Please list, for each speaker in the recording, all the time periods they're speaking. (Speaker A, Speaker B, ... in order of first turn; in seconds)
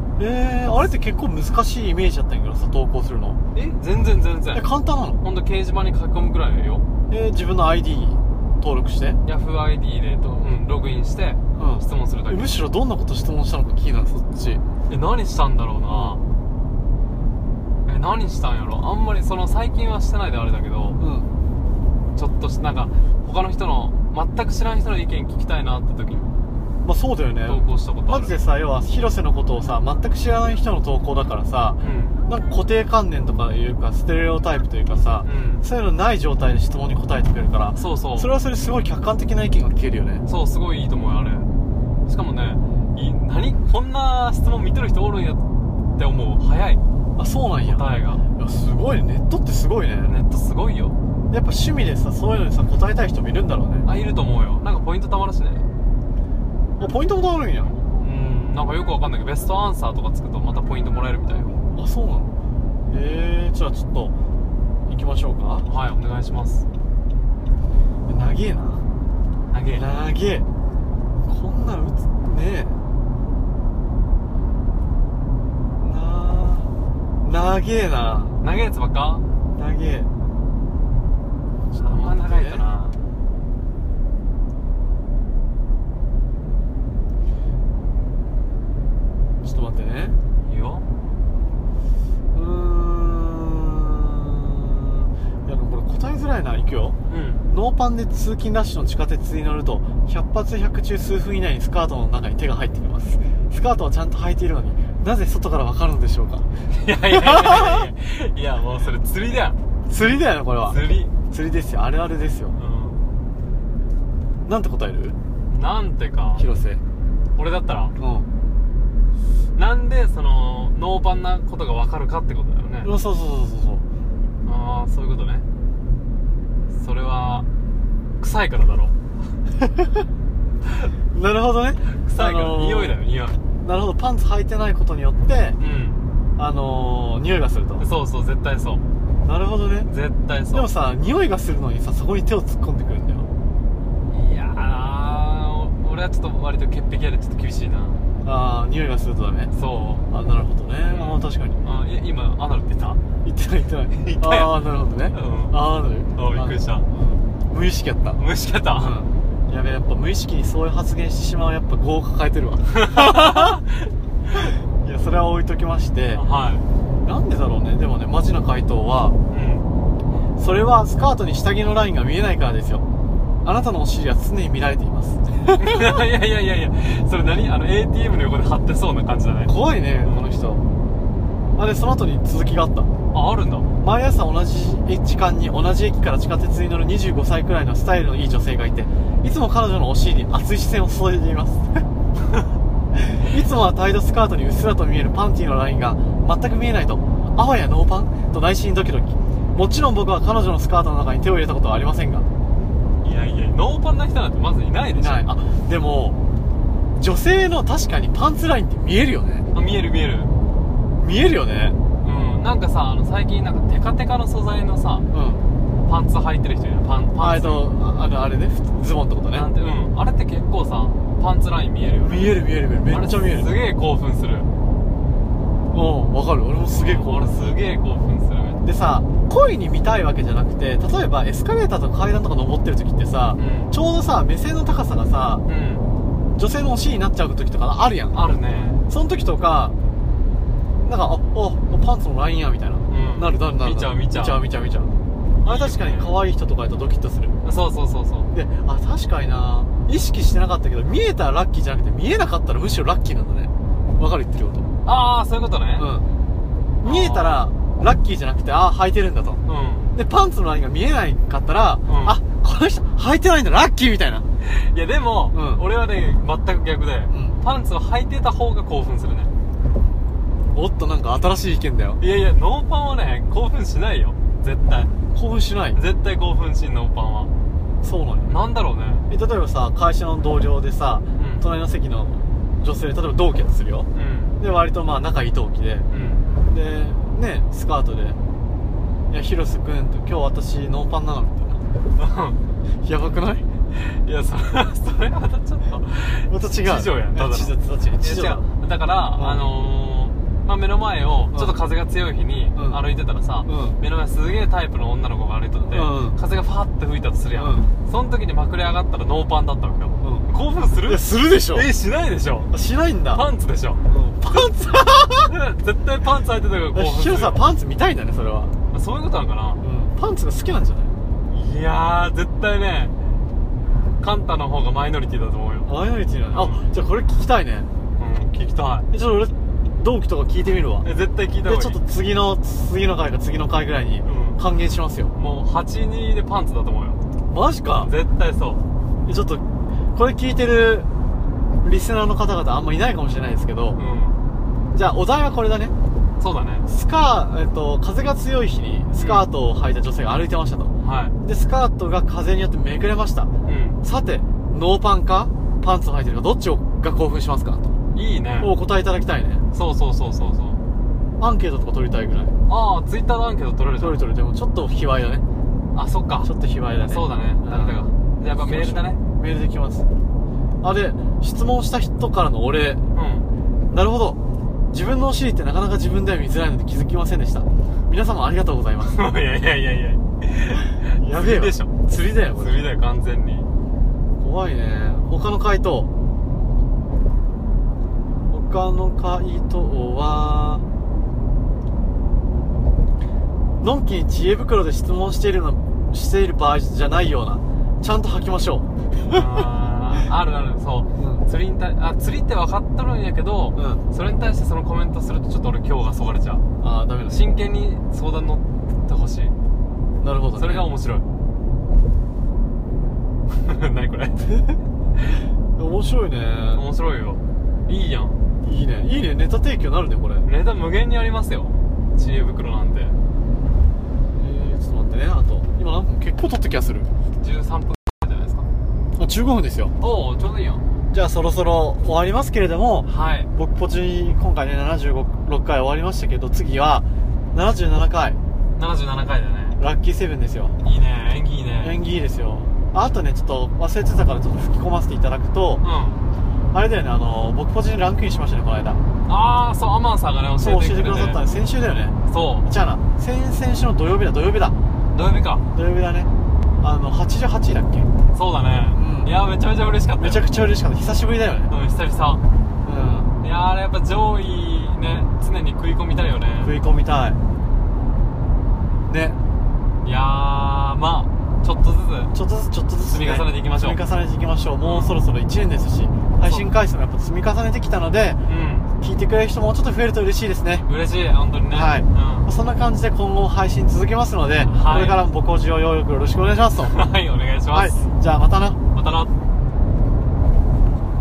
Speaker A: 0.2-3.4, 4.5-5.2, 7.1-9.2, 11.6-14.6, 15.9-16.2, 21.0-21.3, 26.8-40.3, 47.2-47.9, 48.4-50.2, 51.3-53.9, 56.8-57.8, 61.7-62.3, 62.9-64.1, 64.8-65.7, 68.1-68.9, 69.7-70.5, 71.3-72.8, 75.8-76.7, 77.2-78.4, 79.6-80.1, 81.7-82.6, 89.4-90.2, 92.3-97.0, 97.5-106.5, 107.1-107.9, 109.9-112.6, 114.5-115.2, 116.4-116.8, 118.0-118.3, 122.8-123.8, 131.1-133.0, 133.6-135.6, 136.4-137.8, 139.2-139.9, 140.5-143.3, 148.2-149.5, 150.1-151.6, 153.2-158.2, 158.7-163.6, 164.4-166.2, 167.1-169.2, 170.4-172.8, 173.4-176.0, 179.5-180.7, 181.6-182.9, 183.8-191.8, 192.9-202.3, 204.9-206.2, 207.0-209.5, 211.0-211.8, 215.1-215.4, 217.2-219.5, 221.9-223.5, 225.7-227.6, 228.6-235.4, 236.4-238.2, 238.9-239.8, 240.8-247.3, 248.3-254.7, 255.8-256.1, 256.8-259.4, 259.9-264.3, 265.3-265.6, 267.1-267.4, 270.5-272.0, 275.1-275.8, 277.8-278.3, 279.1-283.9, 284.4-285.9, 286.5-288.2, 289.1-291.6, 292.8-293.4, 296.3-298.4, 299.2-299.4, 302.6-302.8, 303.5-303.8, 305.7-306.2, 307.4-307.7, 310.0-310.3, 310.9-311.7, 312.5-313.2, 313.9-315.3, 316.7-318.6, 319.6-320.9, 325.7-327.7, 328.9-330.9, 331.4-335.1, 337.3-337.9, 339.1-339.4, 339.9-340.9, 341.6-343.8, 344.7-345.7, 346.7-353.3, 353.8-357.8, 358.4-359.4, 361.2-362.4, 363.8-365.2, 366.2-369.9, 370.6-372.8, 373.7-374.2, 374.7-379.0, 380.8-382.6, 384.2-385.9, 388.3-390.6, 393.6-399.2, 401.0-401.3, 403.6-403.8, 406.6-407.3, 410.0-410.7, 415.6-416.6, 418.4-420.3, 424.1-426.9, 429.0-429.7, 430.9-438.2, 439.6-440.6, 441.6-445.6, 446.5-448.8, 450.4-454.6, 455.5-456.1, 456.6-457.9, 458.7-459.1, 460.0-461.5, 462.6-463.1, 466.4-467.2, 468.9-469.2, 472.1-478.2, 478.8-480.7, 481.5-486.8, 487.5-488.6
Speaker B: 3.5-4.7, 5.2-6.9, 9.2-12.6, 14.9-16.2, 17.9-21.0, 22.1-26.3, 27.5-28.4, 31.8-32.1, 35.2-35.6, 37.8-38.3, 40.3-41.5, 42.1-45.4, 46.0-46.8, 47.6-48.2, 50.0-51.0, 53.8-55.7, 58.0-61.5, 65.7-66.7, 69.5-69.8, 78.4-79.2, 81.8-83.0, 90.4-90.9, 97.1-97.4, 106.7-109.6, 110.7-111.1, 112.5-113.0, 115.5-116.5, 117.4-117.9, 119.6-122.9, 124.4-125.5, 126.7-127.5, 128.2-128.9, 132.0-133.4, 135.6-136.0, 137.8-138.8, 139.9-140.7, 144.1-148.0, 149.5-150.1, 150.8-153.0, 154.0-154.5, 155.1-155.6, 156.2-156.9, 158.2-159.0, 162.7-163.9, 166.2-166.7, 169.3-169.7, 175.6-180.3, 183.1-183.7, 203.0-205.3, 209.5-210.3, 212.0-215.1, 215.8-217.7, 219.3-224.5, 226.7-228.7, 233.4-233.7, 235.5-235.9, 238.1-238.8, 242.9-244.4, 245.4-246.2, 247.4-248.3, 254.8-255.9, 256.8-257.4, 259.5-259.9, 261.9-262.2, 264.4-269.3, 272.0-274.9, 275.8-277.3, 278.3-279.1, 281.2-281.5, 283.9-284.4, 285.9-286.2, 292.0-292.4, 293.7-312.5, 313.1-313.8, 315.3-317.4, 318.7-319.6, 321.3-322.9, 324.0-325.7, 326.3-326.7, 328.0-328.9, 330.8-331.8, 334.1-334.4, 335.2-337.0, 337.8-338.6, 343.8-344.2, 346.2-346.7, 349.0-349.3, 350.8-351.1, 353.5-353.8, 357.9-358.5, 359.5-360.6, 362.5-364.0, 365.7-366.3, 366.9-369.0, 372.9-373.3, 378.8-381.7, 382.4-383.5, 399.1-406.4, 407.1-409.3, 410.4-411.1, 413.3-414.3, 416.5-418.2, 420.2-423.0, 427.2-428.5, 429.8-430.6, 432.9-433.3, 438.6-439.6, 440.6-441.8, 445.6-446.0, 449.1-451.2, 452.1-452.5, 454.9-455.4, 458.1-460.3, 461.5-462.2, 463.2-466.6, 469.8-472.1, 472.9-473.8, 474.6-475.0, 476.2-476.5, 478.3-478.7, 480.7-482.3, 484.5-485.0, 486.7-487.8, 488.7-489.1